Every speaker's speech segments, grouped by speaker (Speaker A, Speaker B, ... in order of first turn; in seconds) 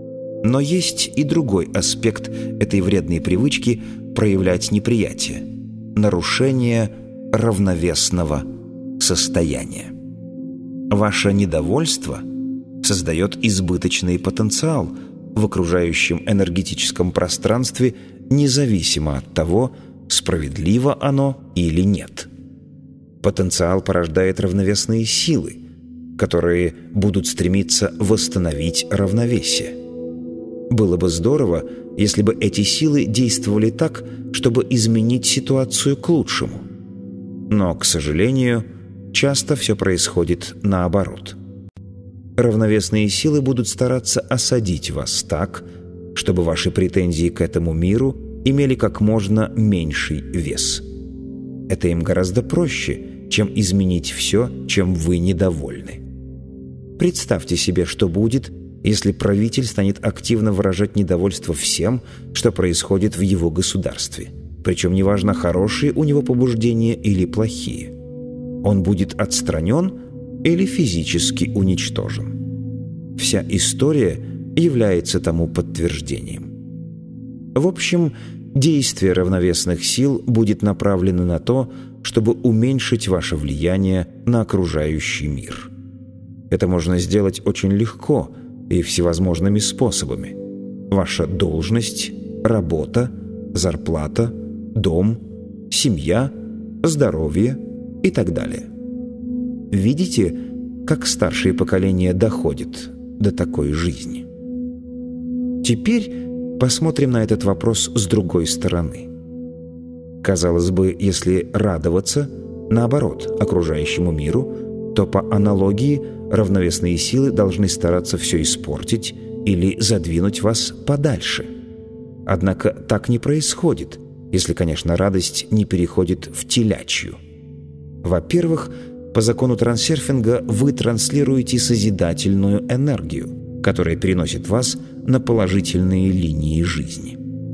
Speaker A: 0.4-8.5, 9.0-9.9, 10.9-12.2, 12.8-22.3, 23.2-25.6, 26.2-29.7, 30.7-36.6, 37.5-41.4, 42.4-50.8, 51.7-56.0, 57.0-67.9, 68.6-72.4, 73.2-76.5, 77.5-85.7, 86.5-90.3, 90.9-98.7, 99.7-104.2, 105.6-109.1, 110.2-121.5, 122.2-127.2, 128.0-137.2